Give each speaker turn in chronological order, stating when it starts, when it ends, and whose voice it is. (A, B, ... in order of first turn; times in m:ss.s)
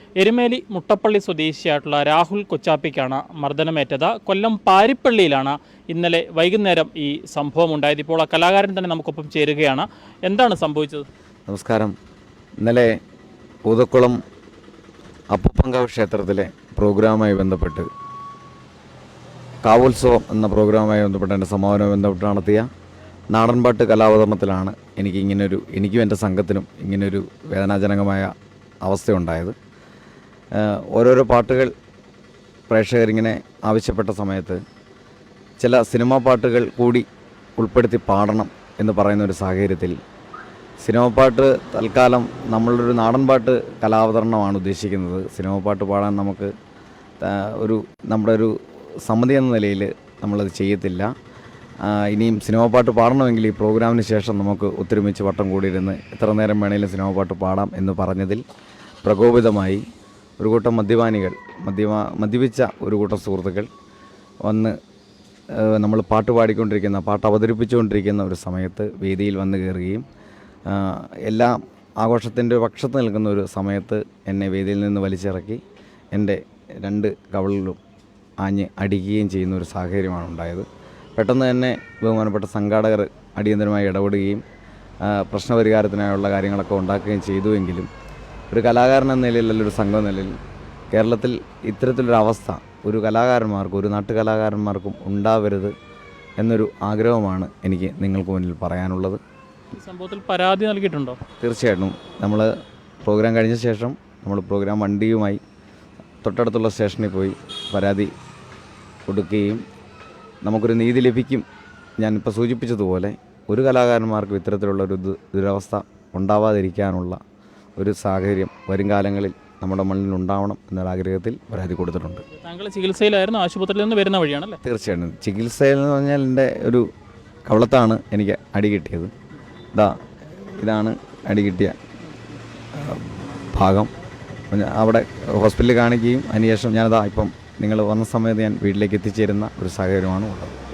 0:00.2-0:11.1 A
0:11.5-0:11.9 B
0:12.6-0:12.9 B
0:13.7-0:14.2 B
0:15.3-0:17.9 B
0:19.6-0:22.7 B
0:23.3-0:28.3 B
0:28.8-0:29.5 B
0:30.6-0:31.7 B
0:32.7-0:34.6 B
0:35.6-0:37.0 B
0:37.6-0:40.0 B
0:40.8-0:46.5 B
0:47.2-0:51.1 B
0:51.8-0:58.4 B
0:59.0-0:59.8 B
1:00.4-1:03.7 B
1:04.4-1:04.7 B
1:05.5-1:10.0 B
1:10.7-1:15.6 B
1:16.1-1:17.8 B
1:18.4-1:20.6 B
1:21.2-1:24.4 B
1:25.0-1:27.9 B
1:28.5-1:30.4 B
1:30.9-1:35.7 B
1:36.4-1:39.2 B
1:39.7-1:41.2 A
1:41.4-1:42.5 B
1:43.0-1:45.4 B
1:46.2-1:48.1 B
1:49.1-1:49.6 B
1:50.4-1:51.4 B
1:52.0-1:57.2 B
1:57.8-2:02.2 B
2:02.4-2:04.6 A
2:04.6-2:06.8 B
2:07.5-2:09.1 B
2:09.7-2:11.8 B
2:12.7-2:13.9 B
2:14.5-2:20.5 B